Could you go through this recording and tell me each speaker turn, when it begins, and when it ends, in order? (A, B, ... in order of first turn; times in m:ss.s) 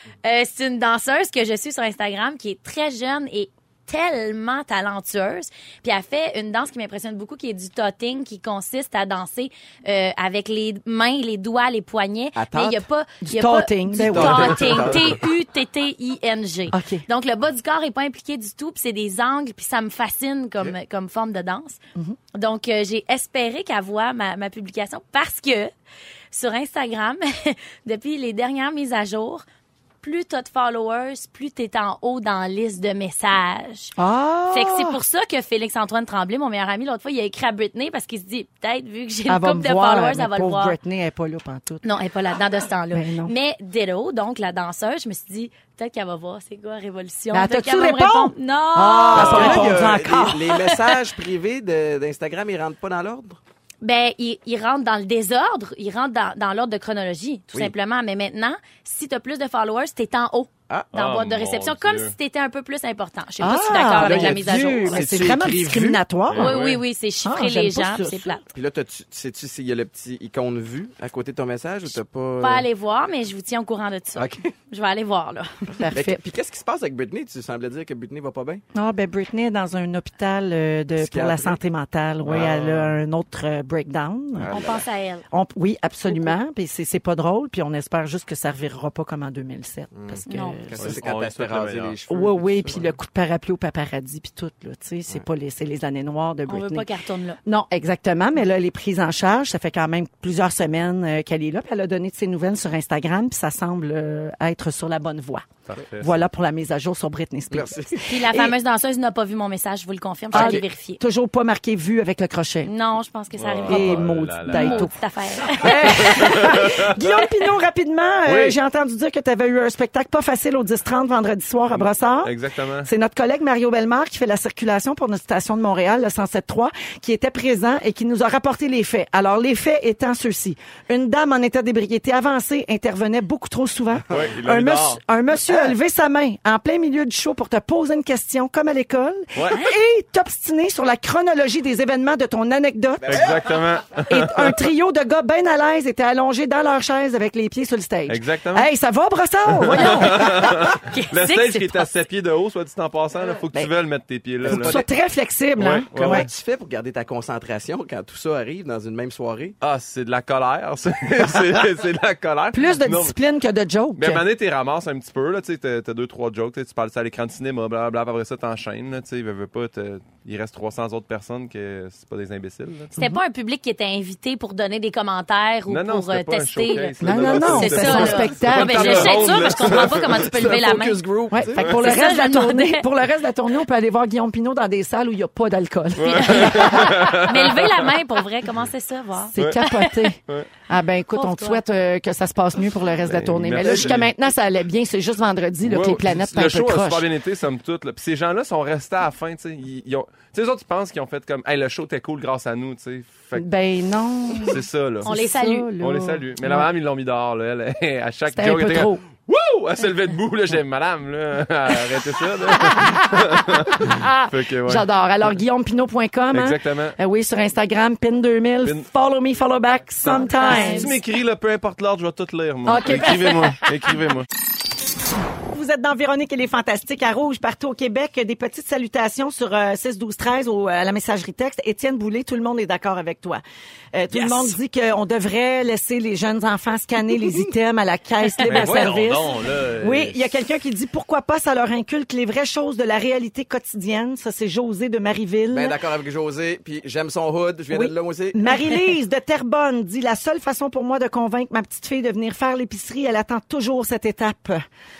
0:00.2-0:21.8 A
0:12.4-0:12.8 B
0:13.2-0:14.9 C
0:14.0-0:15.2 B
0:16.7-0:17.0 C
0:22.3-0:25.7 A
0:26.3-0:29.4 A
0:30.0-0:33.9 A
0:34.0-0:35.0 C
0:34.5-0:40.7 A
0:39.3-0:41.8 C
0:41.8-0:50.0 A
0:42.9-0:43.3 C
0:47.3-0:50.4 C
0:49.1-0:53.4 B
0:53.8-1:05.1 A
1:00.9-1:02.1 D
1:03.4-1:06.5 C
1:03.9-1:06.0 B
1:06.3-1:06.8 D
1:06.4-1:08.4 A
1:07.2-1:08.4 C
1:08.5-1:12.7 B
1:12.4-1:15.8 A
1:14.2-1:14.5 B
1:15.8-1:16.2 C
1:15.9-1:18.6 B
1:18.7-1:24.6 C
1:21.0-1:21.6 B
1:22.2-1:22.9 D
1:24.4-1:24.8 B
1:24.5-1:25.2 A
1:25.3-1:31.0 C
1:29.9-1:32.9 B
1:30.3-1:30.6 A
1:30.8-1:32.0 D
1:32.1-1:36.9 C
1:36.5-1:37.4 A
1:37.4-1:48.5 C
1:45.7-1:46.2 D
1:47.5-1:48.0 B
1:48.0-1:51.0 A
1:50.3-1:52.7 C
1:52.6-1:56.6 A
1:53.4-1:54.9 D
1:53.6-2:23.3 C
1:55.9-1:57.0 D
1:58.2-1:58.6 D
2:01.8-2:02.9 D
2:14.1-2:15.0 D
2:19.4-2:19.7 A
2:23.0-2:23.5 B
2:23.1-2:24.6 D
2:24.0-2:30.5 C
2:28.1-2:28.7 D
2:29.5-2:34.8 D
2:29.7-2:31.9 A
2:34.4-2:34.9 B
2:34.4-2:36.3 C
2:35.6-2:36.3 D
2:35.9-2:39.5 B
2:39.6-2:43.2 D
2:42.5-2:44.2 C
2:44.0-2:53.0 D
2:53.0-3:01.0 A
2:55.7-3:00.3 D
2:57.0-2:59.5 C
2:59.6-3:01.7 B
3:01.3-3:07.3 C
3:01.6-3:02.8 A
3:06.0-3:07.9 D
3:06.0-3:10.0 A
3:09.3-3:17.0 C
3:09.4-3:09.6 D
3:11.2-3:11.6 A
3:13.0-3:14.1 D
3:15.6-3:23.4 D
3:23.4-3:26.7 C
3:24.4-3:25.1 D
3:25.0-3:25.7 A
3:25.8-3:34.8 D
3:28.3-3:29.0 C
3:32.6-3:41.0 C
3:36.3-3:37.0 D
3:40.0-3:44.3 D
3:40.1-3:41.0 A
3:42.6-3:43.6 C
3:45.5-3:53.4 C
3:53.9-4:05.8 C
3:54.1-3:54.6 B
3:58.4-4:00.3 D
4:05.5-4:08.8 B
4:07.7-4:14.6 C